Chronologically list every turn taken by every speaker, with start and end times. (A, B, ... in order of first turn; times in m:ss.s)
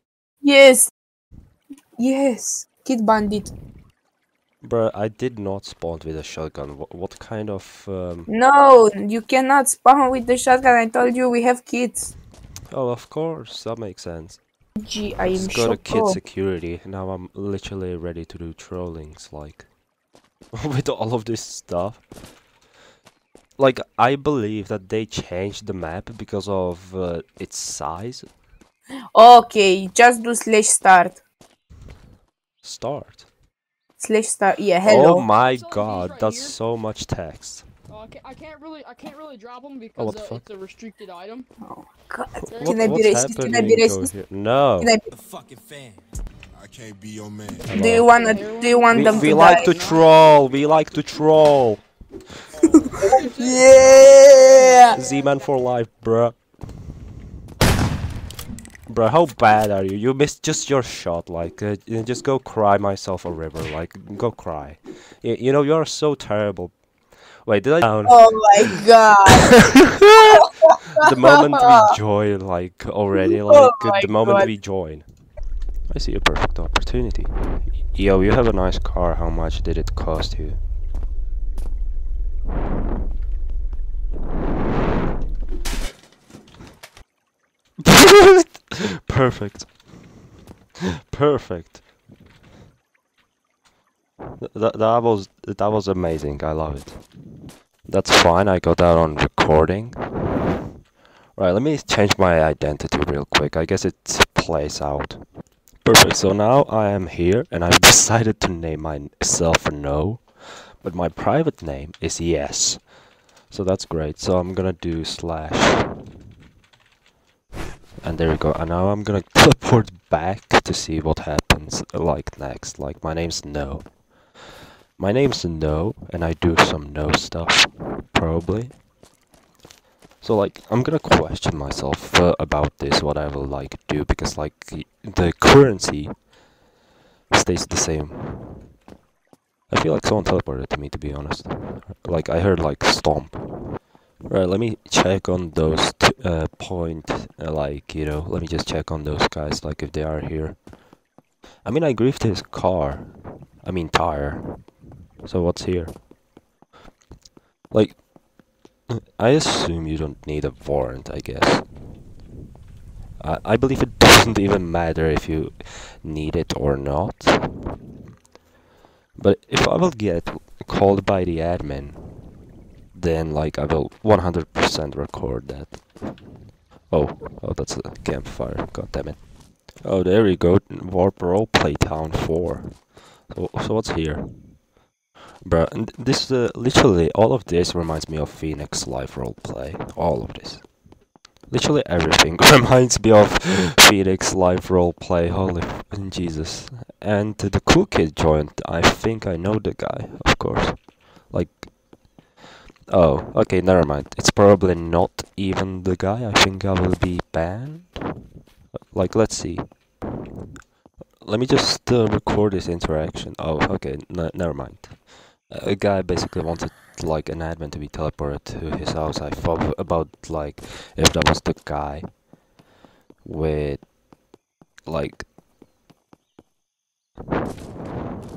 0:00.4-0:00.9 A
0:02.0-0:03.5 A
0:04.6-0:08.3 B
0:08.3-0:12.1 A
0:12.7-0:14.4 B
0:14.8-0:16.2 A
0:15.3-0:19.7 B
0:20.5-0:22.0 B
0:23.6-0:28.3 B
0:29.2-0:31.2 A
0:32.6-0:33.3 B
0:34.0-0:35.3 A
0:34.8-0:37.6 B
0:35.4-0:36.6 C
0:37.9-0:41.5 C
0:40.0-0:40.4 B
0:41.6-0:44.1 A
0:42.5-0:44.9 B
0:42.5-0:42.9 C
0:44.8-0:45.1 A
0:45.1-0:46.0 D
0:46.7-0:47.5 D
0:47.7-0:48.1 B
0:47.7-0:49.8 A
0:48.1-0:49.4 C
0:48.9-0:51.8 B
0:49.6-0:50.5 D
0:52.8-0:55.0 A
0:53.1-0:55.0 C
0:54.8-0:56.4 B
0:58.9-1:06.8 B
1:07.4-1:08.8 B
1:08.0-1:09.7 A
1:09.6-1:10.4 B
1:10.3-1:11.0 A
1:11.0-1:15.1 B
1:13.5-1:14.5 A
1:15.9-1:20.6 B
1:27.8-1:29.9 B
1:31.1-1:31.8 B
1:34.4-1:37.0 B
1:37.9-1:40.5 B
1:41.4-1:45.2 B
1:45.8-1:52.9 B
1:53.5-1:56.0 B
1:58.0-2:04.0 B
2:05.0-2:08.8 B
2:10.2-2:16.2 B
2:17.3-2:18.7 B
2:19.7-2:30.6 B
2:31.6-2:35.9 B
2:37.7-2:38.1 B
2:38.9-2:41.7 B
2:43.2-2:47.7 B
2:49.2-2:52.4 B
2:52.9-2:55.8 B
2:56.9-3:04.6 B
3:05.4-3:10.6 B
3:11.5-3:21.7 B
3:22.9-3:28.2 B
3:28.9-3:29.8 B
3:31.2-3:42.2 B
3:43.2-3:43.9 B
3:44.8-3:45.3 B